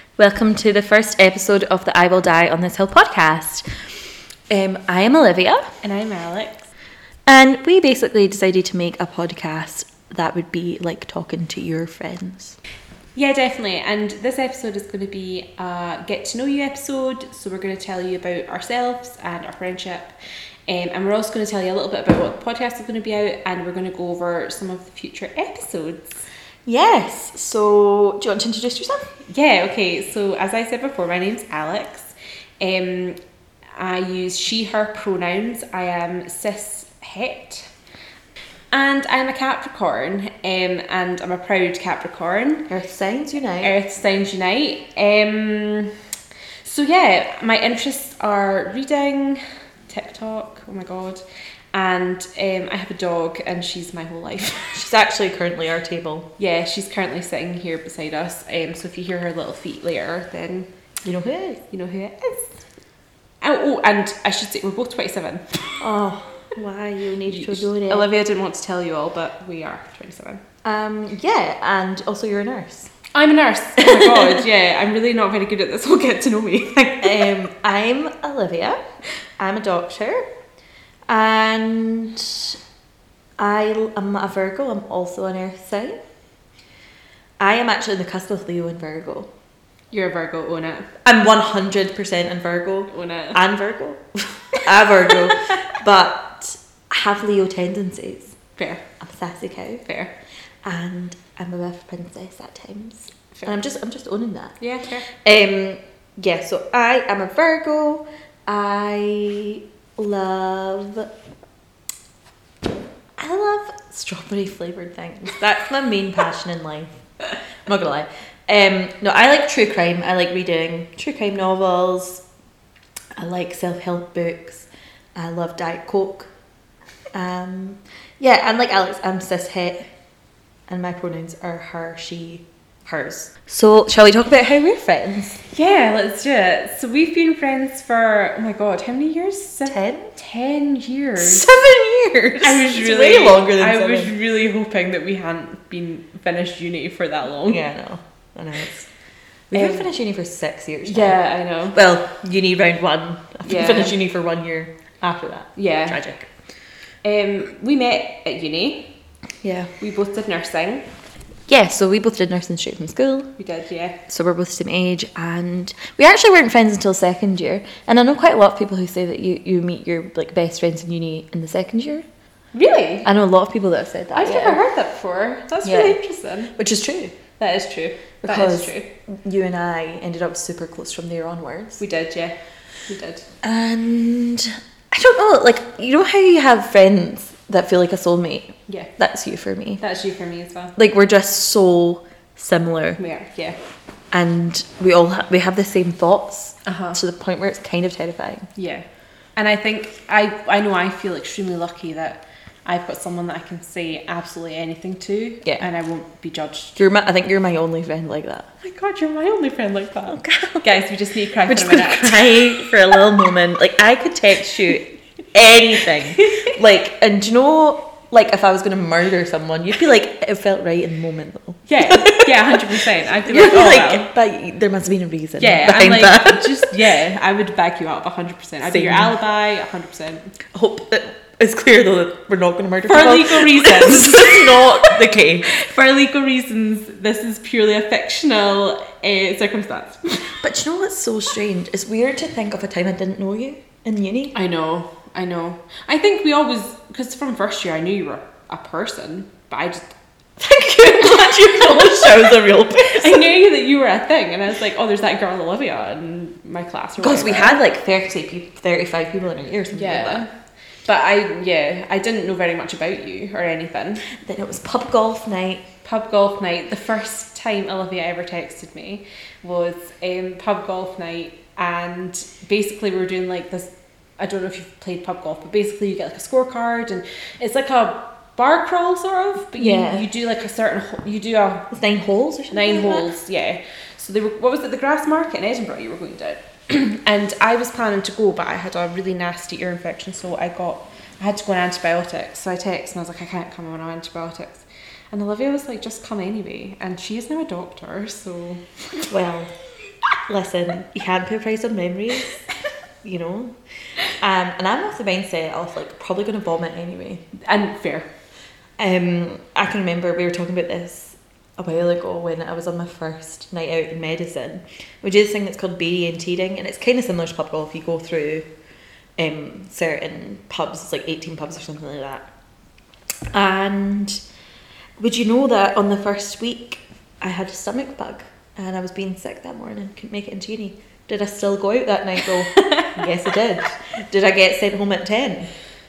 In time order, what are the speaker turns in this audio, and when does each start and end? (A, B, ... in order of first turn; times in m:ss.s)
0:00.2-0:03.6 A
0:04.5-0:05.6 A
0:05.8-0:06.7 B
0:07.2-0:12.6 A
0:13.1-0:20.1 B
0:20.7-0:26.2 B
0:26.6-0:29.1 A
0:29.3-0:33.2 B
0:33.8-0:37.7 B
0:38.7-0:42.7 B
0:42.7-0:43.8 A
0:43.6-0:45.9 B
0:46.6-0:54.8 B
0:54.7-0:56.3 A
0:56.4-1:00.7 B
1:01.0-1:01.6 A
1:01.7-1:02.6 B
1:03.4-1:05.7 B
1:05.8-1:08.1 A
1:07.3-1:10.4 B
1:10.6-1:12.9 A
1:13.1-1:17.3 B
1:13.8-1:14.4 A
1:17.0-1:18.8 A
1:19.4-1:20.2 A
1:21.1-1:22.6 A
1:23.4-1:26.0 A
1:27.4-1:29.3 A
1:29.9-1:30.9 B
1:31.0-1:38.4 A
1:32.9-1:33.4 B
1:38.6-1:38.8 B
1:39.0-1:39.9 A
1:39.8-1:40.1 B
1:40.6-1:44.6 A
1:44.6-1:45.1 B
1:45.1-1:51.1 A
1:53.2-1:56.9 A
1:57.6-2:02.2 A
2:03.2-2:06.3 A
2:07.1-2:09.9 A
2:10.7-2:15.4 A
2:15.5-2:21.5 B
2:19.6-2:20.1 A
2:21.2-2:24.2 A
2:22.4-2:27.6 B
2:27.4-2:28.9 A
2:29.5-2:31.2 A
2:29.5-2:29.8 B
2:30.8-2:31.8 B
2:31.7-2:36.3 A
2:33.4-2:34.0 B
2:35.6-2:36.0 B
2:37.0-2:38.9 B
2:39.4-2:39.7 A
2:39.8-2:40.8 B
2:41.5-2:43.3 A
2:43.4-2:44.0 B
2:44.1-2:52.0 A
2:52.5-2:53.1 B
2:53.0-2:54.6 A
2:54.1-2:56.5 B
2:55.6-2:56.0 A
2:56.6-2:57.2 A
2:57.4-2:58.9 B
2:58.2-3:01.8 A
3:01.8-3:03.2 B
3:03.4-3:09.8 A
3:09.8-3:10.7 B
3:10.8-3:13.0 A
3:13.0-3:13.6 B
3:14.1-3:18.5 A
3:16.6-3:17.0 B
3:18.6-3:26.8 B
3:26.8-3:28.5 A
3:28.6-3:32.7 B
3:30.1-3:30.7 A
3:31.4-3:42.6 A
3:41.7-3:44.1 B
3:43.2-3:46.7 A
3:45.4-3:50.3 B
3:48.7-3:49.1 A
3:50.5-3:55.5 A
3:52.8-4:00.3 B
4:00.3-4:04.4 A
4:04.3-4:09.9 B
4:10.4-4:13.4 A
4:11.3-4:17.6 B
4:17.0-4:20.2 A
4:19.7-4:20.3 B
4:20.8-4:24.0 B
4:24.1-4:25.6 A
4:25.8-4:41.7 B
4:39.6-4:40.1 A
4:41.7-4:43.1 A
4:42.5-4:58.6 B
4:59.1-4:59.5 A
5:00.3-5:02.3 A
5:03.0-5:03.6 A
5:04.1-5:07.2 A
5:07.4-5:08.1 B
5:08.8-5:18.5 A
5:19.2-5:22.3 A
5:23.3-5:24.2 A
5:25.0-5:35.5 A